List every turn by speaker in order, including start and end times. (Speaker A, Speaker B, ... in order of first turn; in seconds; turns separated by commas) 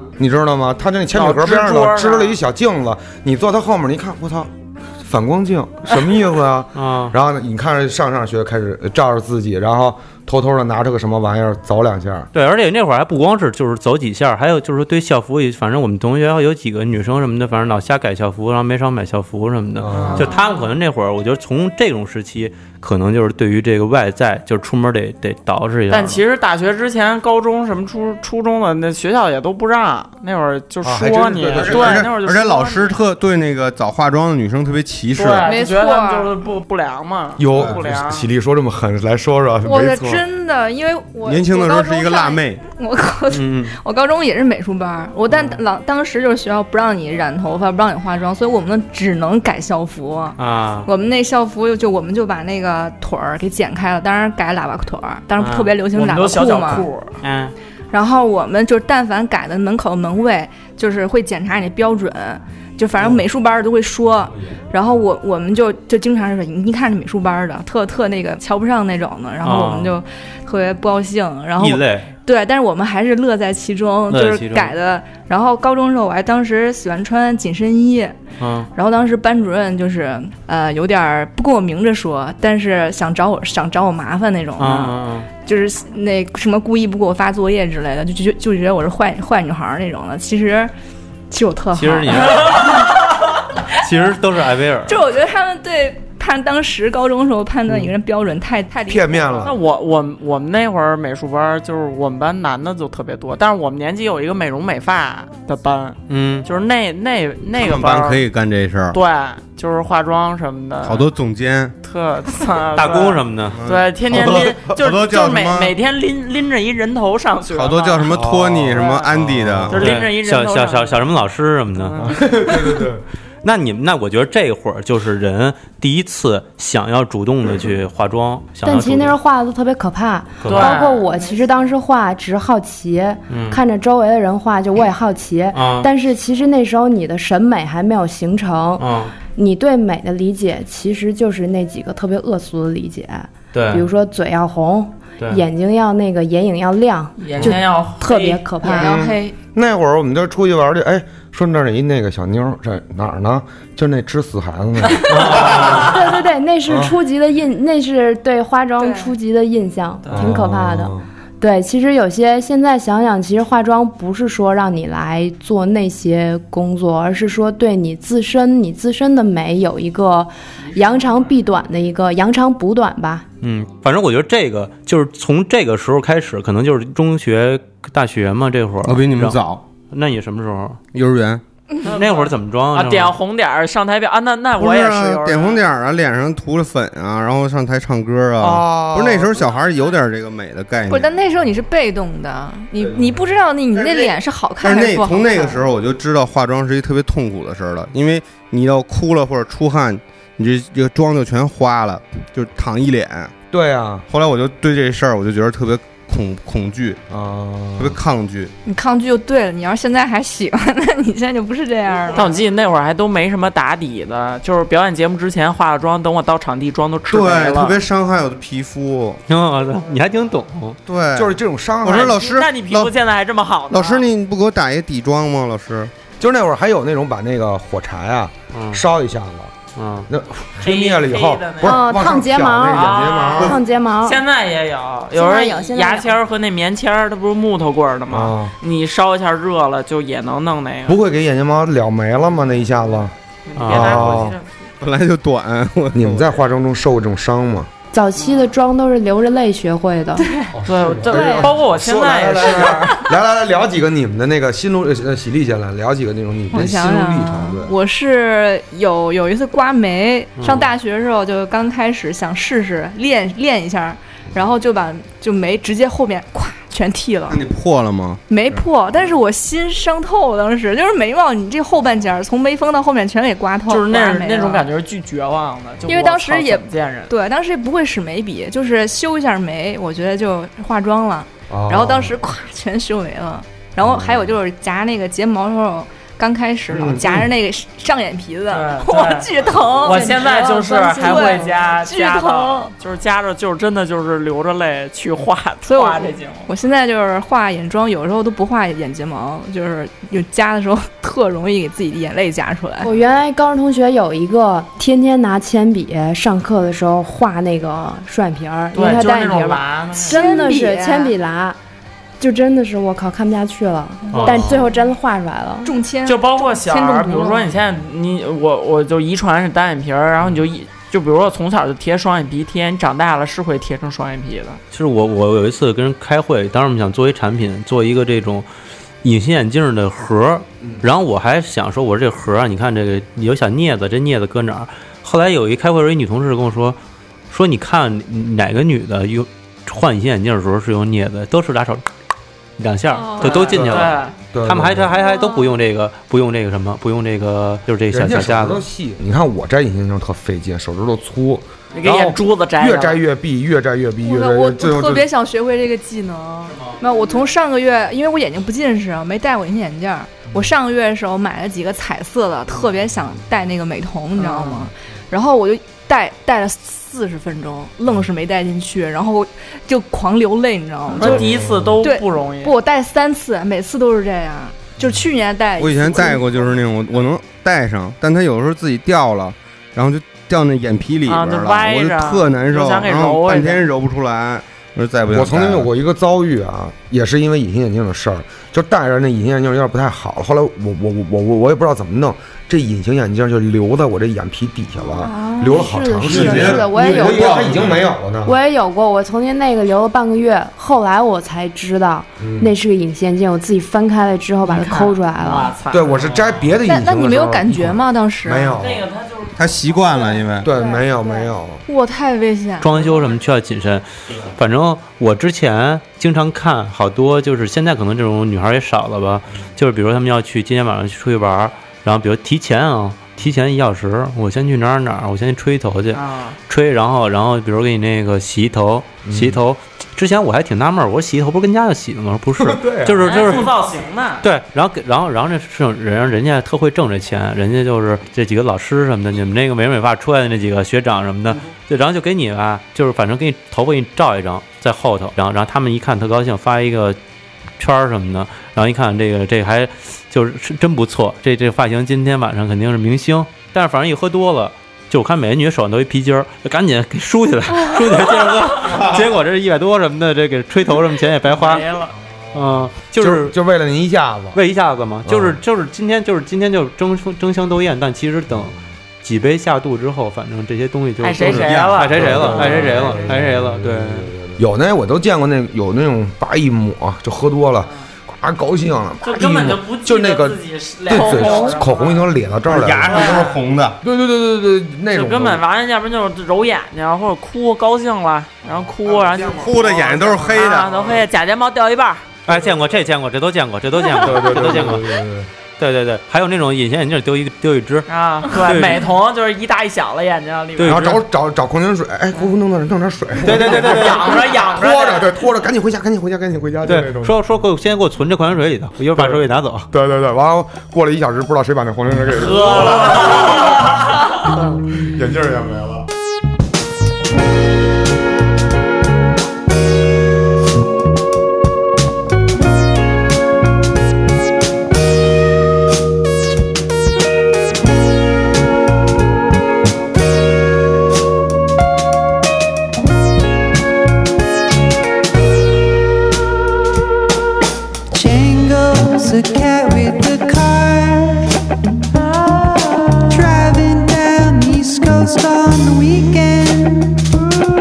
Speaker A: 0.2-4.5, Speaker B: 1.1-2.4, Speaker A: 5.0-12.3, Speaker C: 6.7-7.1, Speaker C: 12.3-26.2, Speaker A: 19.8-20.3, Speaker B: 19.9-20.5, Speaker B: 25.9-33.0, Speaker A: 30.8-32.1, Speaker D: 31.6-35.5, Speaker B: 35.1-38.3, Speaker E: 35.4-36.3, Speaker A: 37.4-40.2, Speaker E: 39.6-56.9, Speaker D: 41.2-42.6, Speaker C: 43.3-43.8, Speaker C: 50.4-50.9, Speaker C: 55.4-55.7, Speaker B: 55.9-57.1, Speaker C: 57.2-57.5, Speaker E: 57.9-78.1, Speaker C: 69.4-70.0, Speaker C: 71.6-72.1, Speaker C: 74.1-74.7, Speaker C: 78.4-78.7, Speaker E: 78.7-90.7, Speaker C: 84.6-85.3, Speaker E: 91.3-92.8, Speaker C: 91.7-92.8, Speaker C: 93.7-95.0, Speaker E: 94.8-99.5, Speaker A: 98.9-99.6, Speaker B: 99.4-108.2, Speaker C: 106.1-106.5, Speaker D: 107.5-109.0, Speaker B: 108.9-111.1, Speaker D: 110.8-111.8, Speaker B: 111.8-119.1, Speaker C: 112.8-113.6, Speaker D: 113.5-115.7, Speaker D: 117.5-119.9, Speaker A: 118.1-118.9, Speaker C: 119.1-122.8, Speaker B: 119.7-121.1, Speaker B: 121.8-122.2, Speaker A: 122.0-123.0, Speaker C: 123.4-129.2, Speaker F: 128.6-149.0, Speaker C: 130.4-130.8, Speaker B: 130.4-131.1, Speaker E: 130.8-131.7, Speaker C: 133.3-133.6, Speaker C: 135.5-135.9, Speaker C: 138.8-139.1, Speaker C: 143.5-143.8, Speaker B: 147.2-148.4, Speaker E: 148.6-149.3, Speaker A: 148.8-155.9, Speaker C: 155.1-155.9, Speaker F: 155.5-173.2, Speaker A: 156.7-156.9, Speaker E: 158.8-159.1, Speaker A: 160.1-161.0, Speaker B: 170.9-171.2, Speaker C: 173.4-180.8, Speaker D: 178.8-179.6, Speaker D: 180.9-181.4, Speaker B: 181.8-185.6, Speaker C: 181.9-183.2, Speaker D: 184.6-191.1, Speaker A: 188.4-189.5, Speaker E: 190.9-195.6, Speaker D: 193.7-203.3, Speaker A: 203.5-204.0, Speaker D: 204.1-207.0, Speaker A: 207.1-208.0, Speaker D: 207.8-208.5, Speaker E: 208.6-212.3, Speaker B: 212.1-217.8, Speaker D: 217.1-219.2, Speaker C: 219.3-220.8, Speaker D: 220.9-222.9, Speaker A: 221.1-222.2, Speaker B: 221.9-224.0, Speaker D: 223.7-225.9, Speaker A: 226.2-229.5, Speaker C: 228.5-228.8, Speaker C: 229.8-230.1, Speaker A: 230.1-233.6, Speaker B: 230.6-231.9, Speaker F: 231.6-234.2, Speaker B: 232.7-241.0, Speaker F: 235.1-236.2, Speaker A: 238.1-238.5, Speaker A: 240.9-243.1, Speaker B: 243.4-244.6, Speaker C: 243.6-244.1, Speaker A: 243.7-244.4, Speaker D: 244.8-246.3, Speaker A: 245.9-247.7, Speaker F: 247.9-250.2, Speaker E: 250.2-250.4, Speaker A: 250.5-257.7, Speaker B: 250.6-253.0, Speaker F: 251.2-251.4, Speaker E: 256.5-267.4, Speaker C: 260.4-260.7, Speaker D: 267.3-268.2, Speaker E: 268.3-274.6, Speaker B: 273.7-277.1, Speaker E: 275.9-292.7, Speaker A: 281.5-282.2, Speaker A: 283.8-284.2, Speaker A: 286.7-287.3, Speaker B: 288.5-296.5, Speaker E: 295.6-302.9, Speaker F: 302.8-311.6, Speaker B: 308.7-310.5, Speaker E: 309.9-311.1, Speaker F: 312.2-315.7, Speaker C: 314.1-314.6, Speaker E: 315.6-317.5, Speaker B: 316.0-324.6, Speaker C: 324.7-328.5, Speaker C: 329.0-336.8, Speaker C: 337.3-341.8, Speaker C: 342.6-348.6, Speaker E: 343.0-343.4, Speaker B: 343.1-344.1, Speaker A: 343.5-345.0, Speaker A: 347.9-355.1, Speaker B: 351.7-353.0, Speaker E: 354.0-371.2, Speaker B: 364.1-364.7, Speaker B: 370.9-372.5, Speaker A: 371.0-371.8, Speaker E: 371.8-376.5, Speaker D: 375.6-385.7, Speaker B: 381.1-383.6, Speaker A: 385.1-398.4, Speaker F: 395.0-397.7, Speaker E: 395.0-395.6, Speaker D: 396.0-397.9, Speaker F: 398.2-405.5, Speaker A: 402.2-402.5, Speaker B: 404.4-406.4, Speaker A: 405.7-408.9, Speaker E: 406.6-408.6, Speaker B: 408.4-410.2, Speaker D: 409.3-410.5, Speaker A: 410.4-411.6, Speaker F: 410.5-411.3, Speaker E: 411.6-412.7, Speaker C: 412.6-433.5, Speaker B: 425.9-426.4, Speaker A: 429.1-429.4, Speaker A: 432.4-433.2, Speaker B: 433.0-434.2, Speaker C: 434.2-447.0, Speaker C: 447.6-461.7, Speaker B: 461.2-461.9, Speaker C: 462.3-463.4, Speaker A: 462.9-464.4, Speaker C: 464.3-474.1, Speaker A: 465.1-465.4, Speaker B: 471.0-473.2, Speaker A: 471.9-483.2, Speaker B: 479.0-482.1, Speaker D: 482.4-483.8, Speaker B: 482.8-483.4, Speaker A: 483.8-485.4, Speaker B: 484.9-492.2, Speaker A: 488.9-489.6, Speaker D: 489.3-491.0, Speaker C: 492.2-494.9, Speaker A: 493.9-495.3, Speaker C: 495.6-498.8, Speaker B: 497.9-500.8, Speaker C: 500.6-501.0, Speaker A: 500.6-507.2, Speaker C: 503.2-504.2, Speaker B: 503.4-505.1, Speaker C: 506.6-509.7, Speaker A: 508.9-513.6, Speaker B: 512.2-513.5, Speaker A: 514.4-515.9, Speaker G: 537.9-541.3, Speaker G: 543.1-547.0